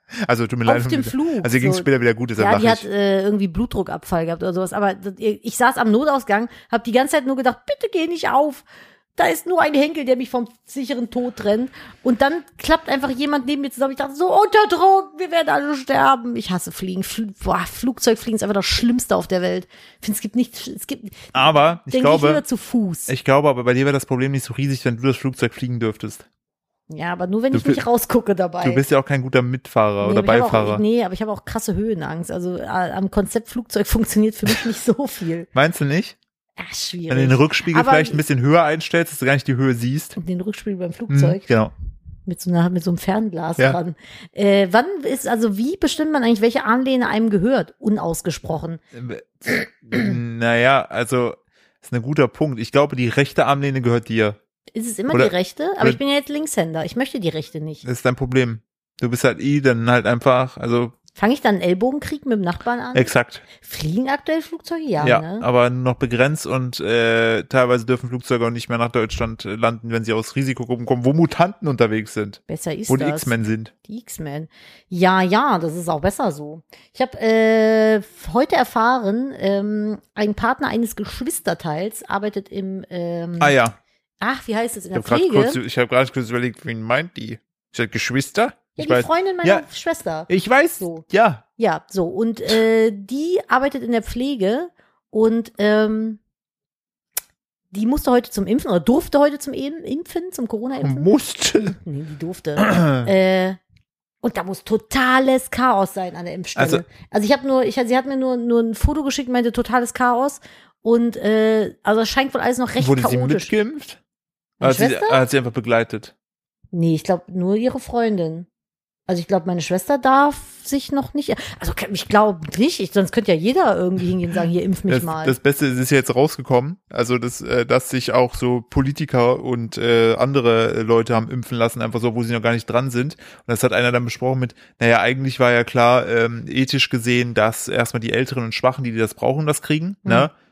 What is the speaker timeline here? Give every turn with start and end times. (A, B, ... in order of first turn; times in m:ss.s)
0:00.2-0:02.8 A
0:00.6-0:23.1 B
0:21.3-0:22.4 A
0:23.1-0:26.2 A
0:26.9-0:28.8 B
0:27.5-0:27.8 A
0:28.6-0:30.8 A
0:30.0-0:35.5 B
0:35.5-0:36.2 A
0:36.6-0:38.2 B
0:37.1-0:40.2 A
0:40.2-0:41.4 B
0:41.1-0:41.7 A
0:42.3-0:48.8 B
0:48.9-0:54.4 A
0:54.8-0:57.8 B
0:55.1-0:56.0 A
0:57.8-1:00.9 A
1:01.2-1:05.5 B
1:02.9-1:03.4 A
1:05.0-1:13.7 A
1:12.5-1:13.3 B
1:13.9-1:23.6 B
1:23.4-1:23.8 A
1:24.2-1:25.6 B
1:24.9-1:29.6 A
1:28.8-1:31.0 B
1:30.3-1:31.4 A
1:31.6-1:36.2 B
1:37.7-1:43.6 B
1:40.8-1:41.7 A
1:42.6-1:42.9 A
1:44.2-1:53.5 B
1:46.6-1:46.8 A
1:52.8-1:54.0 A
1:54.6-1:55.2 B
1:54.6-1:56.1 A
1:56.7-1:58.5 B
1:59.1-2:05.4 B
2:04.9-2:20.3 A
2:20.0-2:20.3 B